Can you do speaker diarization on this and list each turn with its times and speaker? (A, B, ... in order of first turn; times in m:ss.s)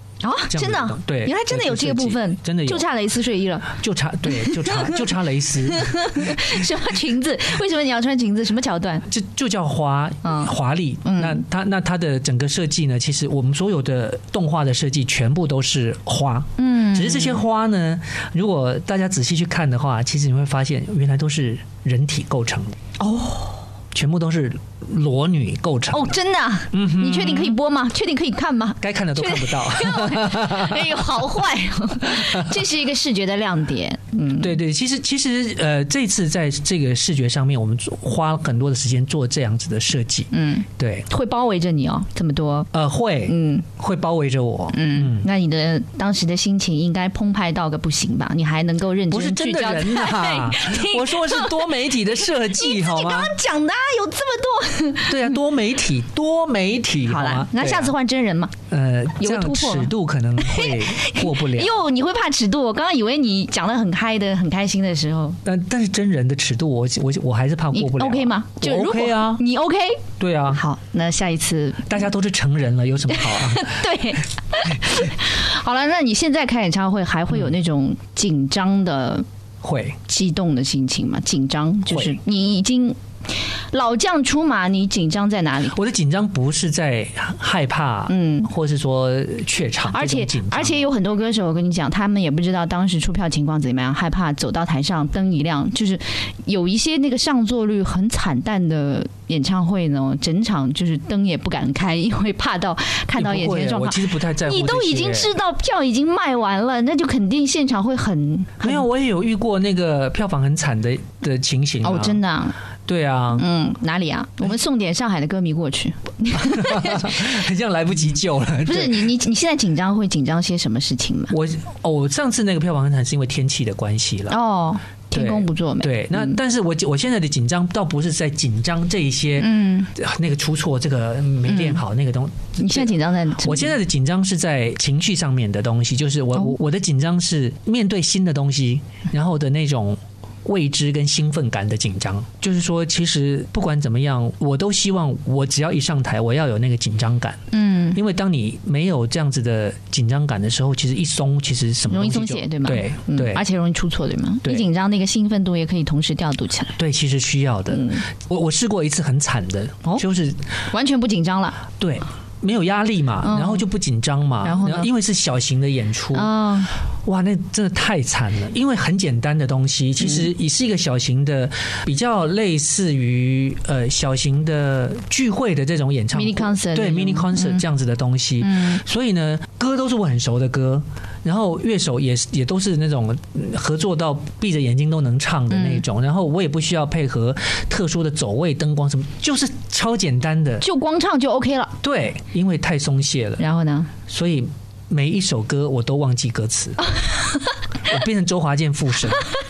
0:00.2-0:03.7 A
0:00.5-0:02.8 B
0:03.7-0:06.6 B
0:04.3-0:05.1 A
0:05.7-0:09.0 A
0:09.1-0:22.8 B
0:10.2-0:11.4 A
0:16.6-0:17.4 A
0:23.0-0:23.6 A
0:23.9-0:26.2 B
0:25.9-0:34.6 A
0:26.7-0:27.6 B
0:28.8-0:31.3 B
0:32.0-0:32.6 B
0:34.4-0:41.1 B
0:40.3-0:42.7 A
0:42.7-0:45.3 B
0:43.3-0:43.6 A
0:44.7-0:55.4 A
0:49.1-0:53.4 B
0:55.1-0:57.9 B
0:57.0-0:58.5 A
0:58.7-1:01.8 B
0:59.2-1:05.4 A
1:05.4-1:09.4 B
1:07.7-1:10.0 A
1:10.2-1:10.6 B
1:10.5-1:11.9 A
1:11.8-1:13.8 B
1:13.1-1:19.2 A
1:19.6-1:20.0 B
1:20.1-1:23.0 A
1:21.9-1:22.2 B
1:23.7-1:25.8 A
1:25.7-1:30.9 B
1:28.1-1:28.5 A
1:29.9-1:48.8 A
1:43.2-1:45.3 B
1:48.6-1:52.2 B
1:51.8-1:52.6 A
1:52.9-1:53.4 B
1:53.4-1:57.2 A
1:56.3-1:59.1 B
1:58.6-2:01.3 A
2:01.3-2:04.4 B
2:04.3-2:06.4 A
2:05.1-2:27.4 B
2:09.4-2:09.9 A
2:11.4-2:11.8 A
2:12.6-2:13.8 A
2:27.5-2:28.0 A
2:27.9-2:33.4 B
2:31.9-2:36.8 A
2:36.8-2:40.4 B
2:37.7-2:38.1 A
2:40.7-2:41.6 A
2:41.8-2:46.3 B
2:43.2-2:43.6 A
2:44.4-2:44.9 A
2:46.1-2:46.7 A
2:47.0-3:10.6 B
2:56.1-2:57.6 A
2:58.4-2:58.8 A
3:05.5-3:05.8 A
3:10.6-3:11.7 A
3:11.8-3:13.4 B
3:13.4-3:13.9 A
3:14.1-3:16.8 B
3:17.0-3:17.5 A
3:17.9-3:19.3 B